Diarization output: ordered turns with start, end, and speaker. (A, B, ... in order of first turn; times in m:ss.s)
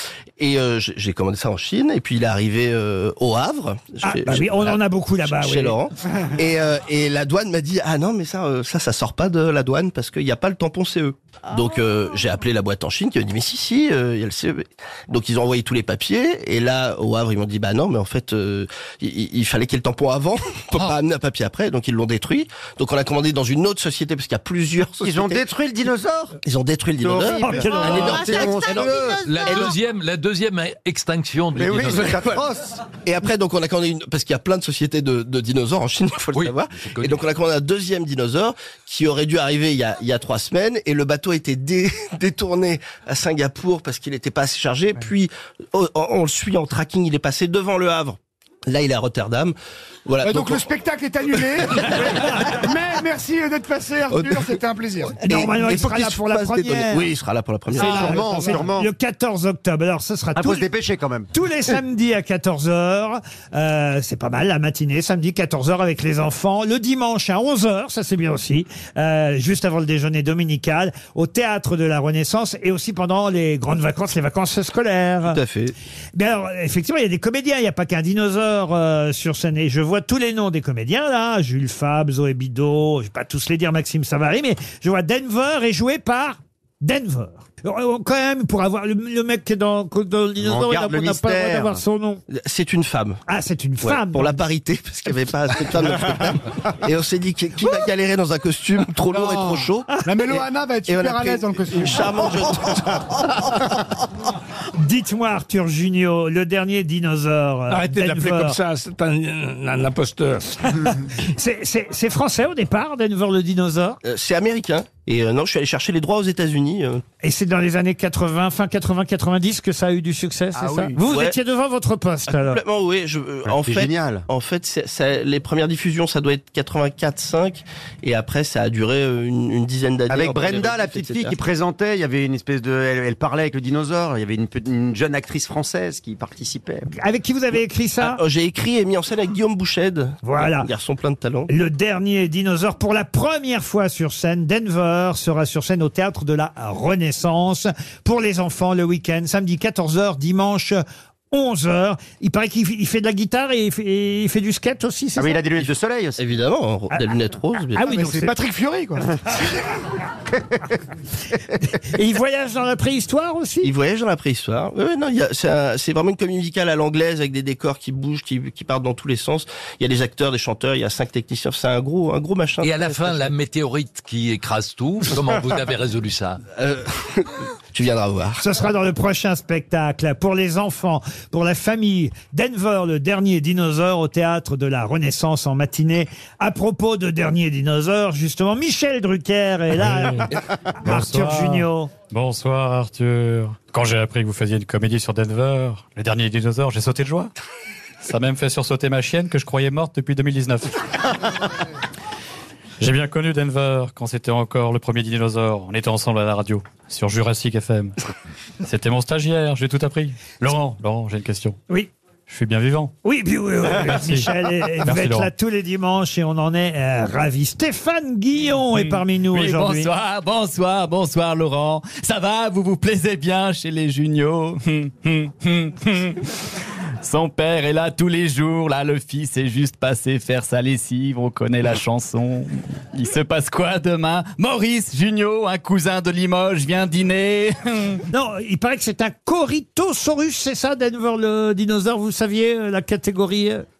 0:00.4-0:25.4 A
0:04.0-0:05.8 B
0:24.9-0:26.4 C
0:26.4-0:29.7 A
0:27.0-0:29.4 C
0:27.4-0:28.2 B
0:27.8-0:28.2 D
0:29.2-0:32.2 D
0:31.5-0:32.8 C
0:32.1-0:32.4 A
0:33.0-0:50.7 A
0:36.3-0:37.3 D
0:50.2-0:55.2 E
0:51.3-0:52.1 A
0:54.1-0:54.6 A
0:55.2-0:58.4 A
0:55.2-0:57.1 B
0:57.7-1:00.7 B
0:57.7-0:58.6 E
0:57.8-0:58.9 C
1:00.4-1:01.3 C
1:01.3-1:15.4 B
1:15.2-1:15.7 A
1:16.1-1:32.2 B
1:30.4-1:31.8 C
1:32.3-1:33.2 A
1:33.3-1:34.4 B
1:33.8-1:43.4 A
1:39.1-1:42.6 E
1:44.8-1:48.6 B
1:47.7-1:50.4 E
1:50.7-1:54.0 B
1:54.0-1:57.0 A
1:57.2-2:02.6 B
2:00.5-2:01.0 C
2:01.0-2:01.4 A
2:02.3-2:11.4 A
2:03.4-2:04.2 C
2:10.1-2:16.9 C
2:17.0-2:18.2 B
2:18.0-2:21.5 A
2:20.2-2:20.7 B
2:21.5-2:35.6 B
2:35.2-2:36.2 C
2:36.2-2:37.9 A
2:37.7-2:38.4 B
2:37.8-2:39.1 E
2:41.7-2:43.7 B
2:43.6-2:53.3 A
2:52.6-2:56.4 D
2:56.6-2:58.4 A
2:58.4-3:11.9 B
3:09.8-3:10.3 F
3:10.8-3:17.3 F
3:18.0-3:20.7 F
3:22.8-3:27.9 F
3:28.6-3:31.6 F
3:32.3-3:32.9 F
3:33.0-3:39.9 B
3:33.9-3:34.3 F
3:34.8-3:35.3 F
3:38.7-3:39.8 F
3:39.6-3:46.2 G
3:47.0-3:57.9 G
3:58.1-4:03.6 B